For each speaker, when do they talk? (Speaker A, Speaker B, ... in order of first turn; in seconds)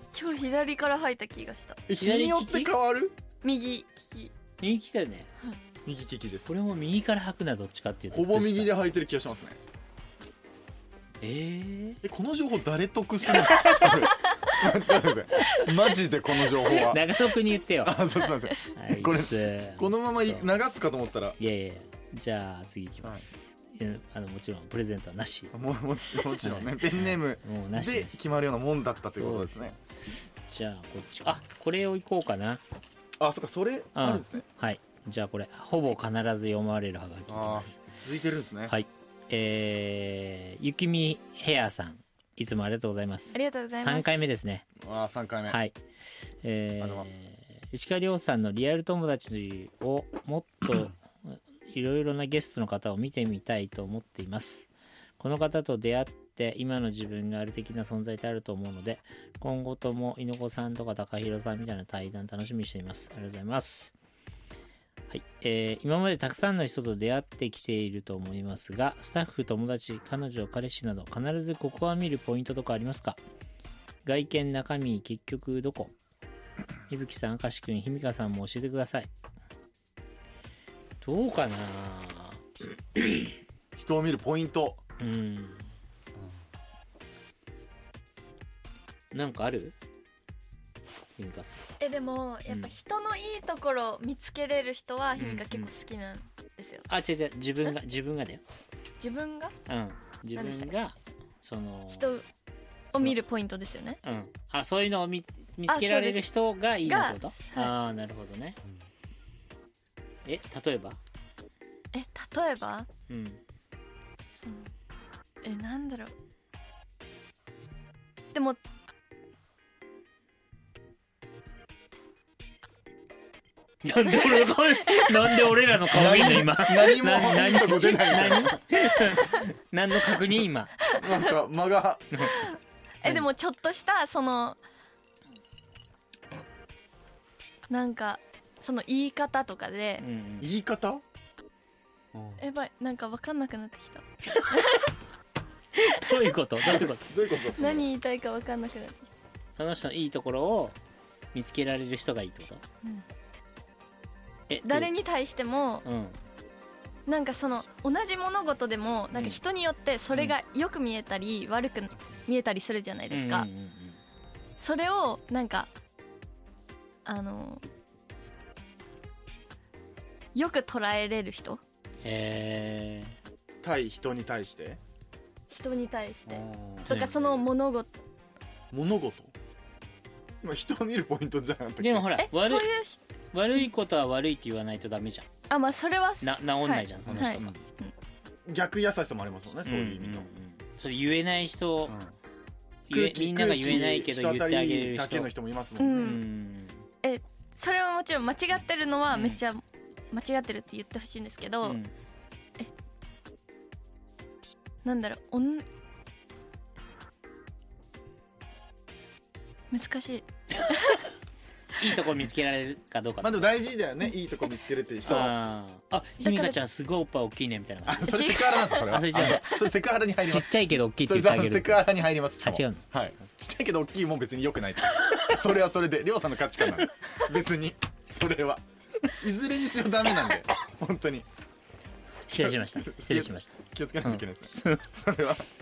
Speaker A: 0.1-1.8, 3.4-4.3, 43.3-44.2, 91.8-96.9, 99.0-99.5, 100.4-100.7, 101.9-102.2, 102.9-104.0, 105.7-106.2, 106.8-107.7, 111.9-112.9, 114.3-114.7, 115.4-116.1, 118.3-118.6, 124.1-125.4, 130.9-131.3, 132.3-134.6, 137.7-140.0, 142.4-144.9, 147.5-149.1, 154.7-155.8, 157.1-163.5, 164.6-165.7, 167.1-167.6, 170.3-171.6, 175.5-177.9, 182.2-183.0, 185.5-187.9, 195.8-196.2, 197.0-201.8, 204.8-205.7, 209.7-211.0, 216.2-216.6, 218.1-218.9
Speaker B: 1.9-3.1, 5.8-6.5, 8.1-9.6, 12.0-17.1, 17.8-21.4, 25.5-29.8, 33.2-34.5, 37.3-38.8, 44.8-45.6, 46.8-47.2, 83.8-84.8, 125.8-128.6, 130.9-132.1, 140.4-141.0, 142.1-142.4, 146.6-147.9, 173.6-174.8, 176.3-177.3, 178.7-179.3, 180.4-182.1, 187.1-187.6, 188.5-190.3, 191.9-192.2, 192.9-196.2, 213.2-215.4, 217.9-231.3, 232.3-235.5
Speaker C: 2.0-2.7, 4.6-5.3, 6.5-8.8, 11.2-12.0, 13.5-13.9, 16.6-18.1, 18.7-20.5, 21.4-25.5, 26.3-28.2, 29.1-29.8, 30.5-32.6, 34.0-37.8, 38.7-44.7, 45.5-45.8, 46.4-63.9, 65.1-73.2, 74.0-75.9, 76.9-79.1, 81.0-82.5, 83.0-83.3, 85.0-85.7, 89.1-89.8, 91.2-91.7, 95.2-95.7, 96.9-98.4, 99.7-102.2, 104.0-108.6, 110.2-111.0, 113.1-113.4, 123.8-130.8, 132.1-132.4, 140.0-140.5, 144.3-144.7, 145.8-147.1, 149.6-150.8, 151.3-152.6, 154.5-154.9, 155.8-156.2, 159.1-159.4, 163.1-164.0, 172.0-173.2, 176.9-177.2, 181.8-182.7, 183.3-185.3, 186.2-187.5, 189.7-192.0, 192.9-195.3, 195.9-196.8, 199.1-199.4, 201.6-201.9, 211.8-213.5, 215.1-219.6, 220.3-221.8, 222.4-222.9, 232.3-234.9